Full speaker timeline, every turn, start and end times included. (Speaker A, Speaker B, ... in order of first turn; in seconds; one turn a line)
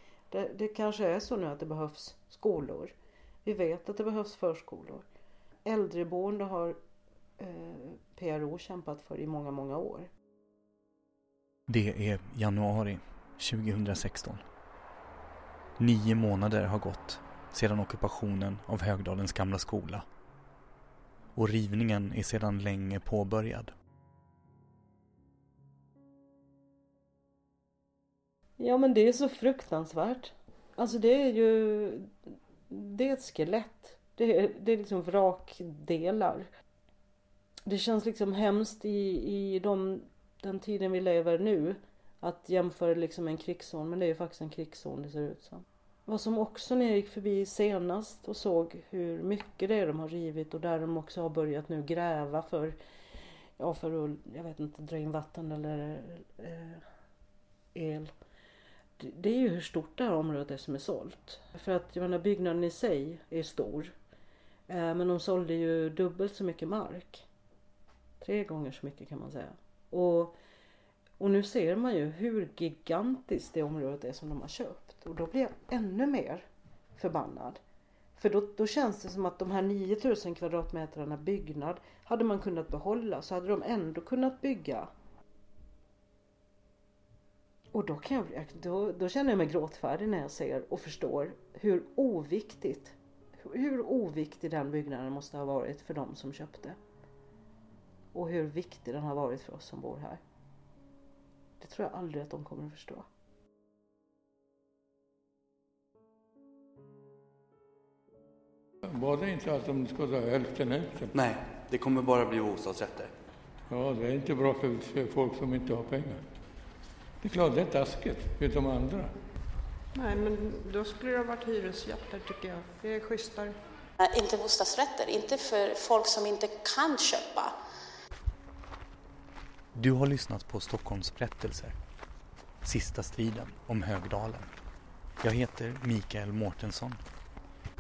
Speaker A: 0.3-5.0
Speaker A: 5.7-6.8
Speaker A: 7.4-10.1
Speaker B: 11.7-14.4
Speaker B: 15.8-20.1
Speaker B: 21.4-23.7
Speaker A: 28.6-32.1
Speaker A: 32.7-36.5
Speaker A: 37.7-52.8
Speaker A: 53.6-56.8
Speaker A: 57.7-58.1
Speaker A: 59.0-63.9
Speaker A: 64.7-67.3
Speaker A: 68.2-70.4
Speaker A: 71.2-77.6
Speaker A: 78.2-84.9
Speaker A: 87.7-96.8
Speaker A: 98.1-100.2
Speaker A: 101.6-103.1
Speaker C: 108.8-111.1
Speaker B: 111.1-113.1
Speaker C: 113.7-116.2
Speaker C: 117.2-119.1
Speaker D: 119.9-123.5
Speaker E: 124.0-127.5
Speaker B: 129.7-131.8
Speaker B: 132.6-134.5
Speaker B: 135.2-137.0